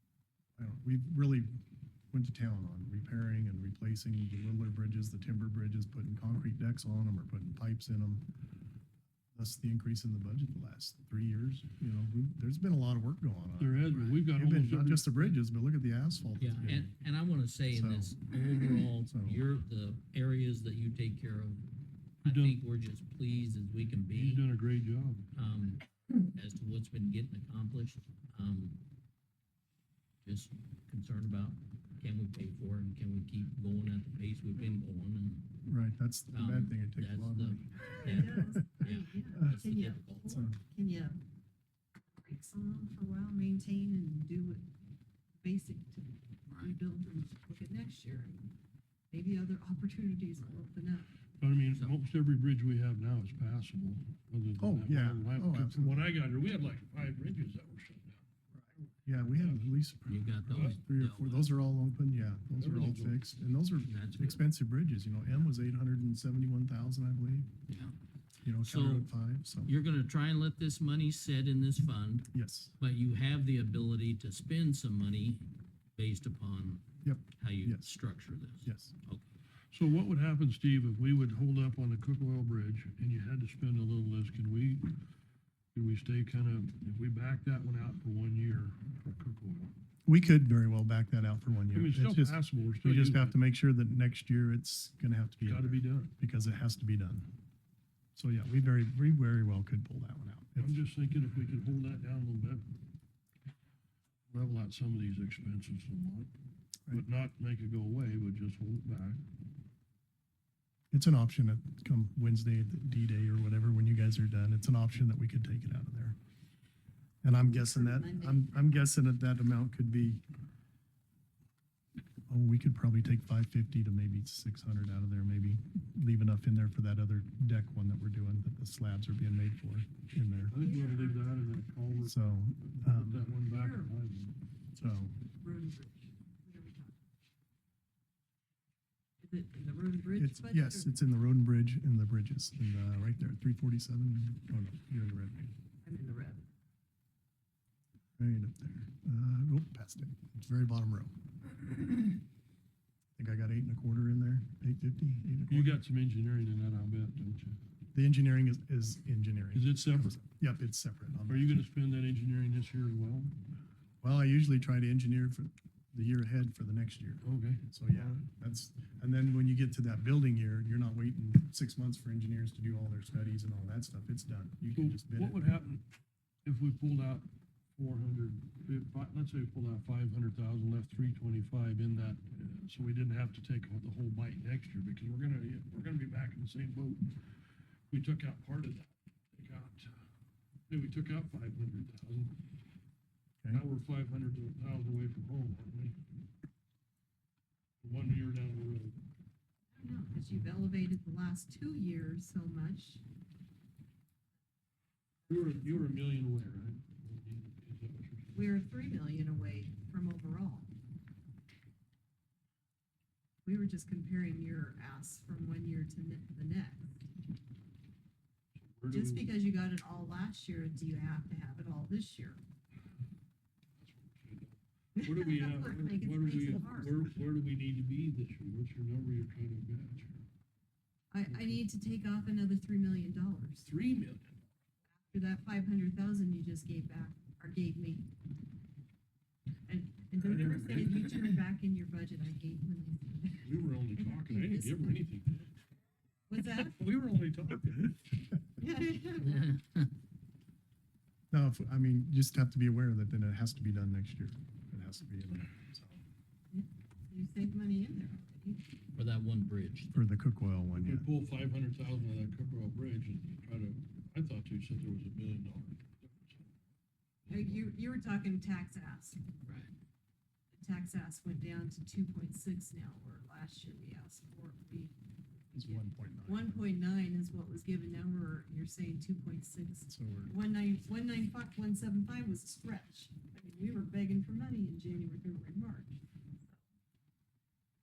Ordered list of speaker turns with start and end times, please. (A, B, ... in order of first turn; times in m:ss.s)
0:00.6-0:08.3 A
0:09.3-0:16.9 A
0:13.6-0:15.4 B
0:16.4-0:21.6 C
0:17.7-0:18.2 A
0:19.1-0:19.4 A
0:22.2-0:24.4 C
0:22.2-0:22.6 B
0:24.1-0:25.3 B
0:25.3-0:28.8 C
0:30.2-0:35.5 C
0:35.6-0:39.6 A
0:36.3-0:40.4 C
0:38.0-0:41.2 D
0:40.3-0:40.6 A
0:42.2-0:44.7 D
0:45.4-0:48.5 D
0:46.5-0:46.8 C
0:49.1-0:51.1 D
0:51.4-0:58.2 B
0:54.6-0:56.1 A
0:58.5-1:07.5 A
0:59.3-0:59.6 B
1:00.0-1:01.5 C
1:00.5-1:00.8 B
1:02.6-1:03.2 B
1:03.8-1:04.4 C
1:07.7-1:07.9 C
1:08.4-1:09.7 A
1:08.6-1:12.3 C
1:12.3-1:12.7 A
1:12.8-1:16.8 C
1:17.0-1:18.0 A
1:17.4-1:19.2 C
1:18.6-1:18.9 A
1:19.7-1:24.9 B
1:25.7-1:29.7 B
1:30.0-1:37.3 A
1:31.7-1:33.3 B
1:35.4-1:36.1 B
1:38.2-1:40.8 A
1:40.6-1:42.7 B
1:44.3-1:46.3 B
1:46.9-1:49.2 B
1:50.9-1:56.2 A
1:57.2-2:00.2 A
1:57.4-1:58.8 D
2:02.3-2:10.6 A
2:10.5-2:14.4 B
2:10.5-2:11.2 D
2:12.0-2:13.2 A
2:13.5-2:13.9 D
2:14.7-2:15.2 A
2:15.3-2:17.0 D
2:19.2-2:20.9 D
2:20.1-2:25.5 A
2:25.8-2:26.5 D
2:28.2-2:31.1 A
2:33.2-2:35.8 A
2:35.5-2:37.6 B
2:37.9-2:41.5 A
2:39.5-2:40.2 B
2:41.3-2:43.4 B
2:44.0-2:55.4 A
2:47.2-2:48.1 B
2:54.7-2:55.8 B
2:56.4-3:07.1 B
3:07.9-3:10.0 B
3:10.7-3:12.4 B
3:13.5-3:16.0 B
3:17.8-3:19.0 B
3:19.7-3:23.0 D
3:25.3-3:28.5 B
3:25.3-3:25.8 D
3:28.3-3:30.7 D
3:33.4-3:37.0 D
3:38.6-3:39.4 B
3:38.9-3:42.4 D
3:43.8-3:50.2 B
3:44.9-3:47.0 D
3:51.1-3:53.7 D
3:51.3-3:51.6 B
3:53.6-3:54.4 B
3:55.1-3:58.1 D
3:59.7-4:05.0 D
4:00.2-4:01.4 B
4:03.4-4:05.5 B
4:06.3-4:06.8 D
4:06.4-4:08.3 B
4:08.6-4:09.6 D
4:11.3-4:16.0 A
4:16.5-4:18.7 D
4:18.9-4:20.0 C
4:19.9-4:21.1 A
4:20.8-4:26.6 B
4:27.2-4:27.7 B
4:27.3-4:29.2 D
4:29.4-4:29.7 C
4:30.5-4:46.6 D
4:35.5-4:36.8 A
4:39.9-4:40.4 A